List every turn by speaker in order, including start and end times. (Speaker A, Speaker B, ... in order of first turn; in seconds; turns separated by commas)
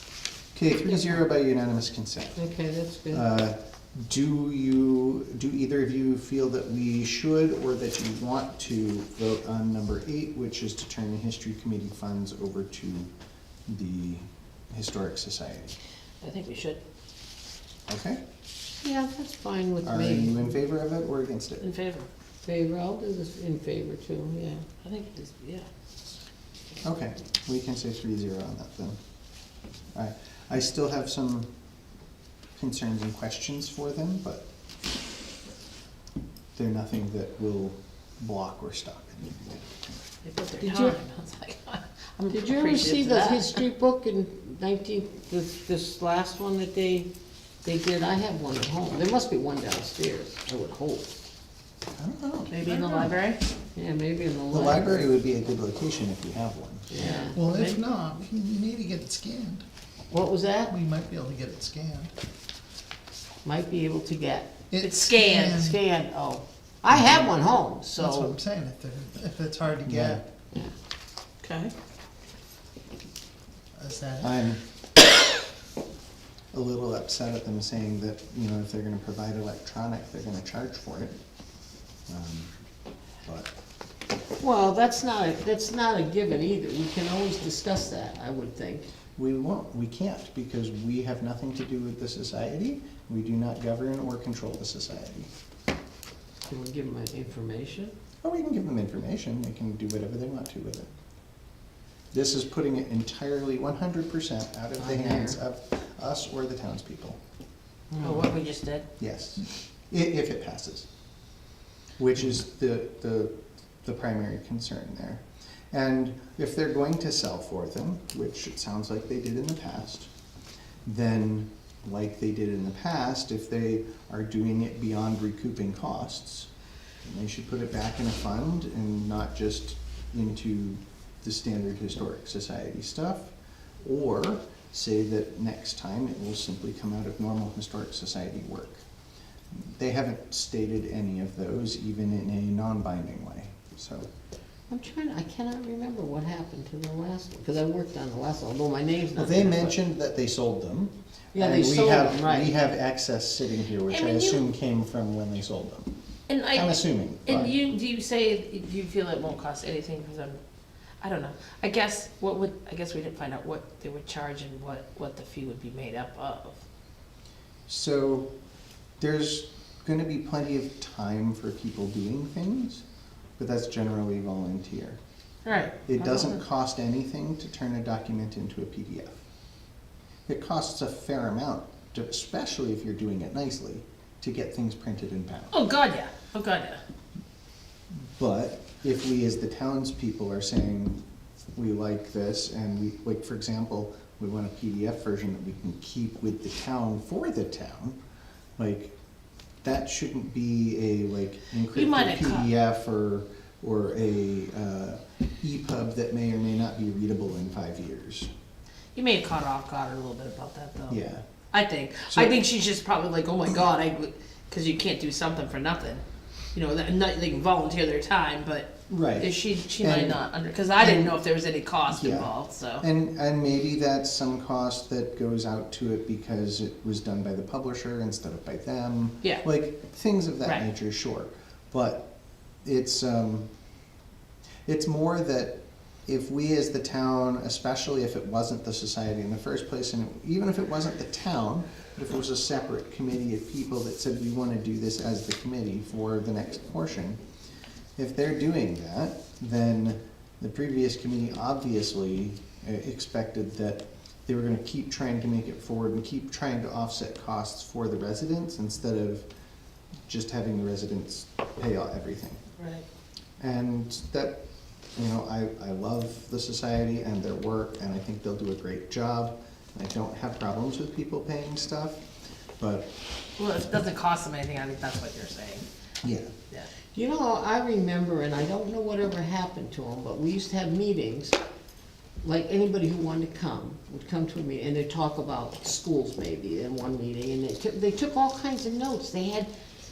Speaker A: 0.5-2.4, Speaker B: 2.4-3.2, Speaker A: 3.1-13.1, Speaker A: 13.7-15.8, Speaker C: 16.2-16.8, Speaker A: 17.9-18.2, Speaker B: 18.8-20.5, Speaker A: 19.8-21.7, Speaker C: 21.6-22.1, Speaker B: 22.4-24.7, Speaker C: 24.8-25.7, Speaker A: 26.8-29.0, Speaker A: 29.9-31.5, Speaker A: 32.6-34.5, Speaker A: 36.5-39.9, Speaker C: 40.2-43.6, Speaker B: 40.6-41.0, Speaker B: 42.3-47.1, Speaker B: 47.6-51.2, Speaker A: 52.0-53.1, Speaker C: 52.5-53.4, Speaker B: 53.7-55.1, Speaker A: 54.5-56.9, Speaker B: 56.9-57.4, Speaker C: 57.0-57.8, Speaker D: 57.3-59.6, Speaker B: 60.1-60.7, Speaker D: 60.7-62.1, Speaker B: 63.4-64.6, Speaker D: 64.7-65.8, Speaker C: 64.8-65.7, Speaker B: 65.6-68.4, Speaker D: 68.0-70.2, Speaker A: 69.8-70.2, Speaker C: 71.4-71.7, Speaker D: 73.8-74.3, Speaker A: 74.2-74.6, Speaker A: 76.5-81.2, Speaker A: 82.1-82.5, Speaker A: 83.2-83.5, Speaker B: 84.4-88.9, Speaker A: 89.2-95.3, Speaker B: 96.5-97.9, Speaker A: 98.2-100.9, Speaker A: 102.1-107.2, Speaker B: 104.8-105.4, Speaker B: 107.9-108.2, Speaker C: 108.0-108.9, Speaker A: 109.0-110.9, Speaker A: 112.0-120.1, Speaker A: 120.8-126.5, Speaker A: 127.0-138.8, Speaker A: 139.5-144.1, Speaker B: 144.7-149.8, Speaker A: 149.2-155.9, Speaker B: 151.3-152.5, Speaker C: 153.9-154.4, Speaker C: 156.3-160.4, Speaker A: 156.5-157.5, Speaker C: 161.0-166.6, Speaker A: 167.7-168.3, Speaker A: 169.0-172.8, Speaker A: 173.4-175.0, Speaker C: 175.4-176.4, Speaker A: 175.9-179.2, Speaker A: 180.3-185.6, Speaker C: 185.5-186.8, Speaker A: 188.0-191.0, Speaker A: 191.6-198.0, Speaker A: 198.6-198.9, Speaker A: 199.6-208.3, Speaker C: 201.7-202.5, Speaker C: 208.9-211.0, Speaker A: 210.9-211.2, Speaker C: 211.5-216.0, Speaker A: 212.1-212.3, Speaker C: 216.5-222.8, Speaker A: 218.9-220.2, Speaker A: 220.8-221.1, Speaker A: 221.9-232.1, Speaker A: 232.6-233.5, Speaker A: 234.7-247.2, Speaker A: 248.0-259.2, Speaker A: 260.1-262.4, Speaker C: 262.6-262.8, Speaker A: 263.4-264.4, Speaker A: 264.9-272.0, Speaker A: 272.6-272.9, Speaker C: 273.4-275.6, Speaker A: 276.0-276.3, Speaker B: 276.9-281.4, Speaker B: 282.2-289.5